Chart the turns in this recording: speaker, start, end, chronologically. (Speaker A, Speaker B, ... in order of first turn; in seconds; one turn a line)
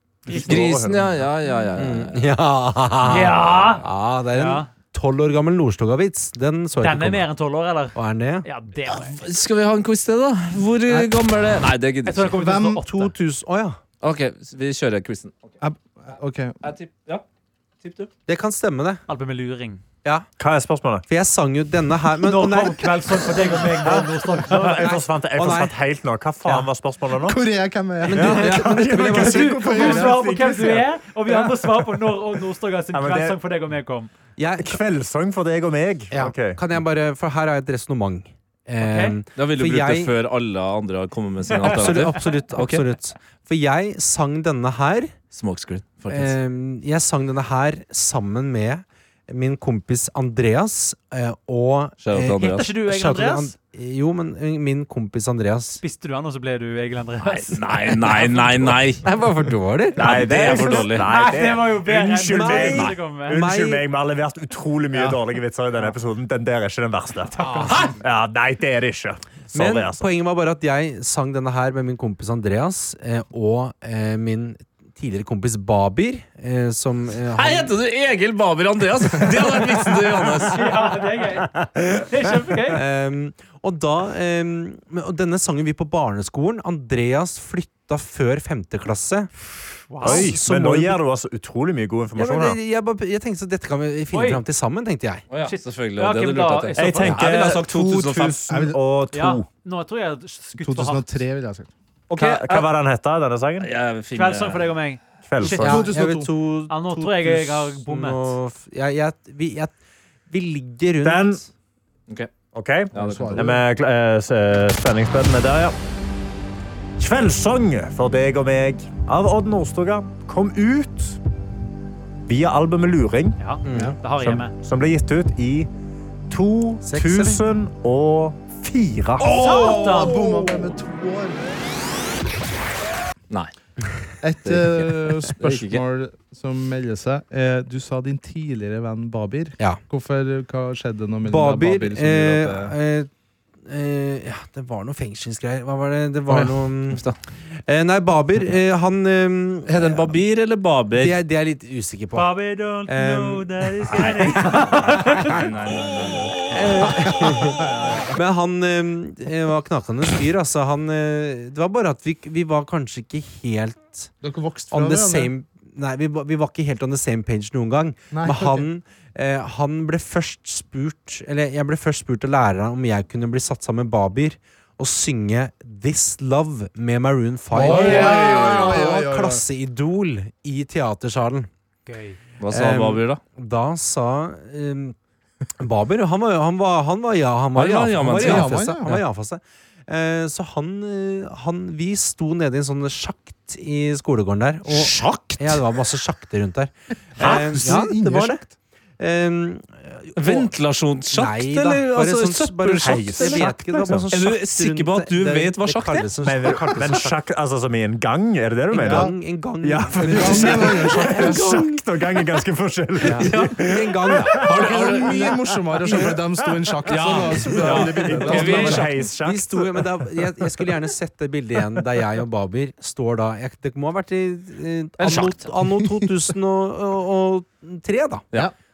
Speaker A: 0.3-0.6
Speaker B: 0.3-1.3
Speaker C: 0.5-2.3
Speaker D: 1.8-7.3
Speaker A: 3.0-4.7
Speaker A: 6.8-9.2
Speaker D: 7.9-8.5
Speaker C: 8.9-12.3
Speaker D: 10.9-11.1
Speaker A: 12.1-13.1
Speaker E: 12.3-12.8
Speaker D: 12.6-13.8
Speaker C: 14.0-15.4
Speaker E: 15.6-16.6
Speaker C: 16.6-17.2
Speaker C: 17.8-18.1
Speaker D: 18.3-19.0
Speaker A: 19.1-19.8
Speaker B: 20.4-21.0
Speaker D: 21.1-22.9
Speaker A: 22.2-25.0
Speaker B: 24.5-27.4
Speaker D: 24.6-25.8
Speaker E: 27.2-30.1
Speaker D: 28.0-29.8
Speaker B: 28.1-30.9
Speaker A: 29.2-34.1
Speaker B: 32.9-33.4
Speaker D: 34.4-34.8
Speaker B: 34.6-36.6
Speaker D: 36.1-40.1
Speaker A: 38.8-39.2
Speaker C: 39.4-42.8
Speaker A: 41.5-42.4
Speaker D: 41.7-45.1
Speaker C: 45.3-46.3
Speaker D: 46.1-55.8
Speaker C: 52.0-52.7
Speaker A: 52.4-53.5
Speaker A: 55.8-58.8
Speaker C: 57.2-59.0
Speaker D: 59.0-60.6
Speaker B: 60.0-70.0
Speaker C: 60.0-61.1
Speaker A: 60.8-63.4
Speaker D: 62.3-63.9
Speaker A: 67.3-67.9
Speaker D: 69.5-77.7
Speaker C: 77.3-80.7
Speaker A: 80.5-82.8
Speaker D: 82.7-89.3
Speaker A: 89.9-90.4
Speaker D: 90.0-91.0
Speaker B: 90.0-92.6
Speaker D: 92.2-95.2
Speaker A: 94.1-94.4
Speaker C: 95.3-98.4
Speaker A: 95.4-97.1
Speaker B: 96.8-99.5
Speaker E: 98.5-98.8
Speaker A: 99.1-101.2
Speaker E: 100.6-101.7
Speaker B: 102.1-103.7
Speaker C: 102.2-102.6
Speaker C: 103.6-104.7
Speaker A: 104.1-105.9
Speaker B: 105.3-105.9
Speaker D: 105.4-109.7
Speaker E: 105.6-106.3
Speaker A: 106.7-108.4
Speaker D: 110.3-111.5
Speaker B: 111.0-111.4
Speaker B: 112.5-115.8
Speaker C: 112.9-113.5
Speaker E: 112.9-113.6
Speaker B: 117.0-121.2
Speaker B: 122.2-123.4
Speaker A: 123.4-124.5
Speaker D: 123.7-124.0
Speaker E: 123.7-124.0
Speaker B: 124.1-125.7
Speaker B: 126.3-129.3
Speaker D: 126.8-127.4
Speaker C: 129.2-130.7
Speaker A: 129.2-130.2
Speaker E: 129.2-131.4
Speaker E: 134.2-142.7
Speaker C: 134.4-135.8
Speaker D: 141.2-143.1
Speaker D: 143.7-147.1
Speaker C: 146.3-147.2
Speaker D: 147.7-150.2
Speaker C: 149.7-151.2
Speaker D: 151.0-155.0
Speaker A: 152.2-155.4
Speaker C: 155.2-156.6
Speaker D: 156.5-164.1
Speaker E: 157.8-158.1
Speaker E: 164.2-165.3
Speaker D: 164.7-181.5
Speaker E: 168.1-168.7
Speaker E: 177.5-179.4
Speaker C: 177.6-178.8
Speaker A: 181.9-182.2
Speaker C: 182.4-183.2
Speaker D: 182.5-185.0
Speaker D: 185.6-198.5
Speaker C: 187.6-188.5
Speaker E: 188.1-189.0
Speaker C: 194.7-195.7
Speaker E: 197.2-198.5
Speaker C: 197.2-197.8
Speaker D: 199.0-200.5
Speaker C: 200.2-203.5
Speaker D: 201.1-207.2
Speaker B: 202.8-204.1
Speaker C: 204.1-206.1
Speaker B: 206.2-215.0
Speaker D: 208.7-211.8
Speaker E: 208.7-209.1
Speaker E: 210.0-211.6
Speaker D: 213.0-214.6
Speaker C: 213.1-213.6
Speaker C: 214.4-215.4
Speaker E: 214.6-219.1
Speaker B: 215.8-216.2
Speaker C: 216.9-219.1
Speaker B: 217.5-219.9
Speaker D: 219.2-228.3
Speaker C: 225.0-225.4
Speaker E: 225.8-226.1